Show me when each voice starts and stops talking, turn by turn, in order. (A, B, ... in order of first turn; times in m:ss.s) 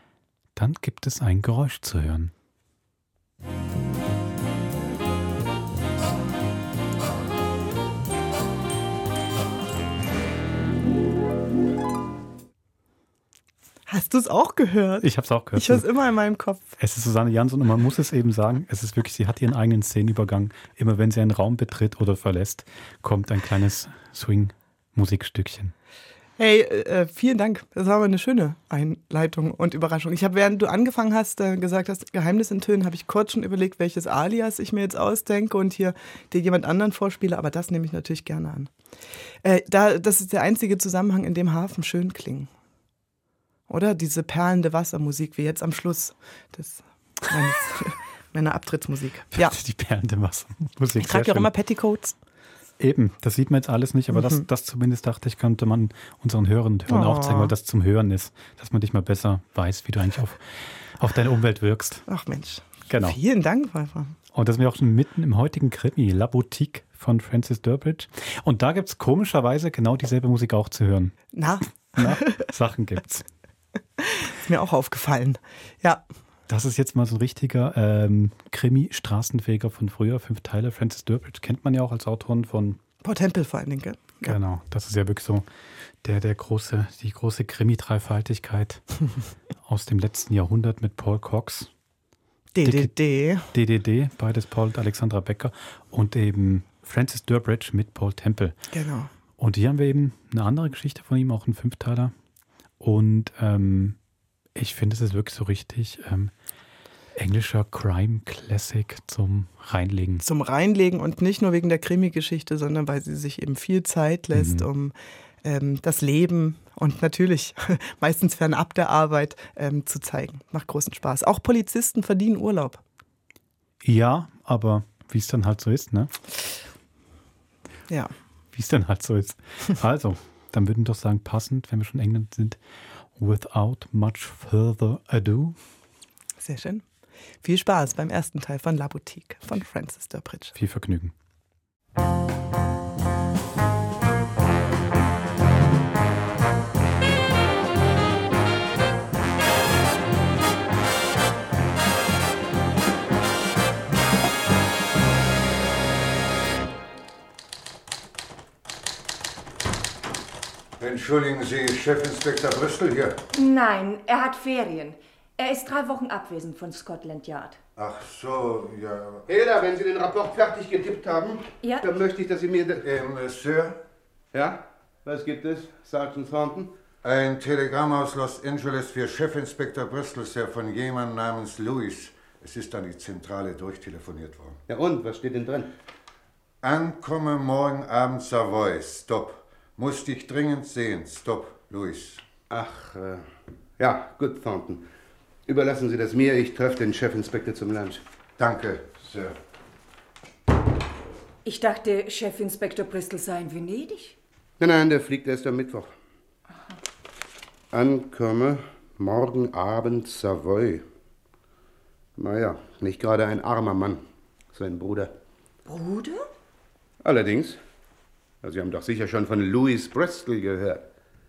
0:00.6-0:02.3 A
0:13.9-0:16.8 B
0:15.0-0:15.8 A
0:16.8-0:25.7 A
0:26.4-0:38.7 B
0:39.4-0:42.5 B
0:43.7-0:49.6 B
0:49.3-0:51.5 A
0:51.0-0:52.1 B
0:52.8-1:00.4 A
0:54.1-0:54.5 B
0:56.9-0:57.5 B
1:01.0-1:02.0 A
1:02.1-1:04.2 B
1:02.9-1:03.2 A
1:04.3-1:11.2 A
1:11.3-1:12.5 B
1:12.0-1:13.2 A
1:14.0-1:16.0 B
1:16.5-1:22.8 A
1:23.0-1:24.4 B
1:24.2-1:25.4 A
1:26.0-1:28.8 A
1:29.6-1:31.7 A
1:32.5-1:33.5 B
1:32.6-1:33.0 A
1:33.5-1:38.6 A
1:38.7-1:39.1 B
1:39.4-1:42.1 A
1:42.8-1:44.0 A
1:44.6-1:46.3 A
1:47.2-1:50.2 A
1:50.2-2:02.8 B
1:54.3-1:54.6 A
2:03.8-2:06.1 A
2:08.5-2:12.6 A
2:13.2-2:15.6 A
2:16.4-2:16.8 B
2:17.4-2:20.5 B
2:20.6-2:21.1 A
2:40.8-2:43.2 C
2:43.3-2:47.6 D
2:47.8-2:49.2 C
2:49.3-2:52.8 E
2:52.8-2:53.8 C
2:54.3-2:56.7 E
2:57.0-3:04.6 C
3:04.7-3:05.7 E
3:06.6-3:12.2 C
3:12.5-3:13.2 E
3:13.8-3:14.9 E
3:15.5-3:18.0 E
3:18.4-3:19.3 C
3:21.4-3:24.2 D
3:24.6-3:25.9 E
3:27.7-3:30.8 E
3:32.2-3:35.1 E
3:35.6-3:36.3 D
3:37.0-3:37.6 E
3:38.4-3:40.9 E